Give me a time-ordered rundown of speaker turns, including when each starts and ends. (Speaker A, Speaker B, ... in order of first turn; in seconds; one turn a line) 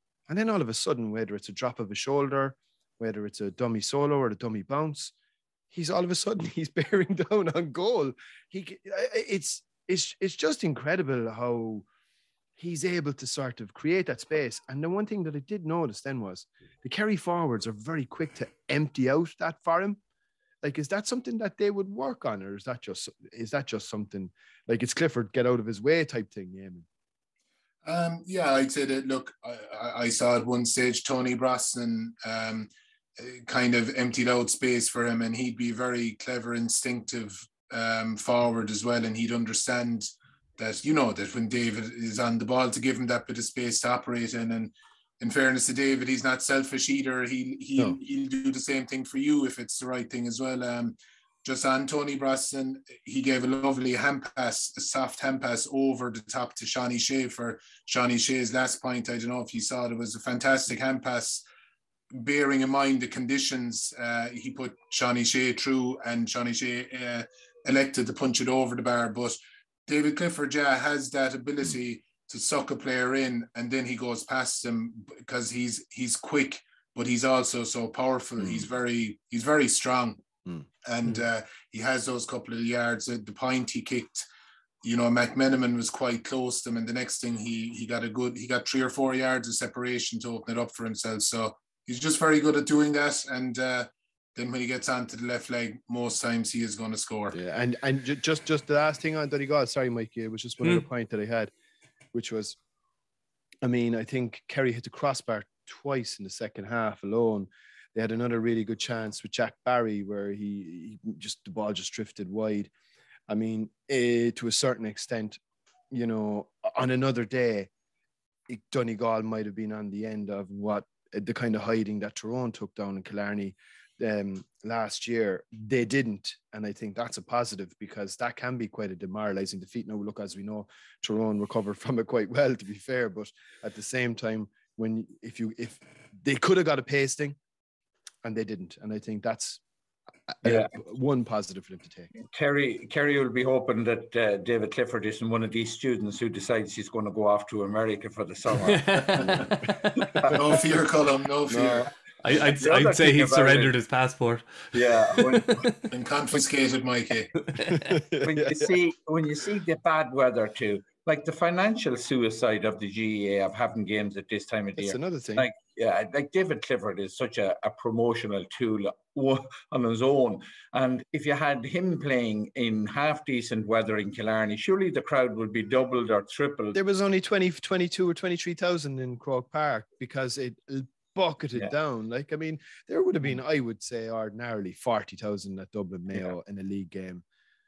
Speaker A: 0.3-5.1
Speaker A: 5.7-11.9
Speaker A: 12.6-20.0
Speaker A: 20.6-26.9
Speaker B: 27.9-61.5
Speaker B: 62.1-80.2
Speaker A: 78.4-78.7
Speaker B: 80.8-84.2
Speaker B: 84.8-97.4
Speaker A: 97.3-101.5
Speaker A: 102.1-102.6
Speaker A: 103.6-112.7
Speaker A: 113.3-115.4
Speaker A: 115.9-117.7
Speaker A: 118.5-137.4
Speaker A: 138.2-139.6
Speaker A: 140.4-142.1
Speaker C: 140.4-140.7
Speaker C: 142.1-148.8
Speaker D: 148.7-149.7
Speaker A: 149.2-149.5
Speaker B: 150.2-151.9
Speaker A: 151.5-151.9
Speaker D: 152.2-155.8
Speaker C: 152.6-153.7
Speaker C: 154.7-155.7
Speaker B: 155.9-157.4
Speaker D: 157.5-157.9
Speaker A: 157.8-158.7
Speaker C: 158.2-176.8
Speaker A: 164.8-165.5
Speaker A: 176.7-187.2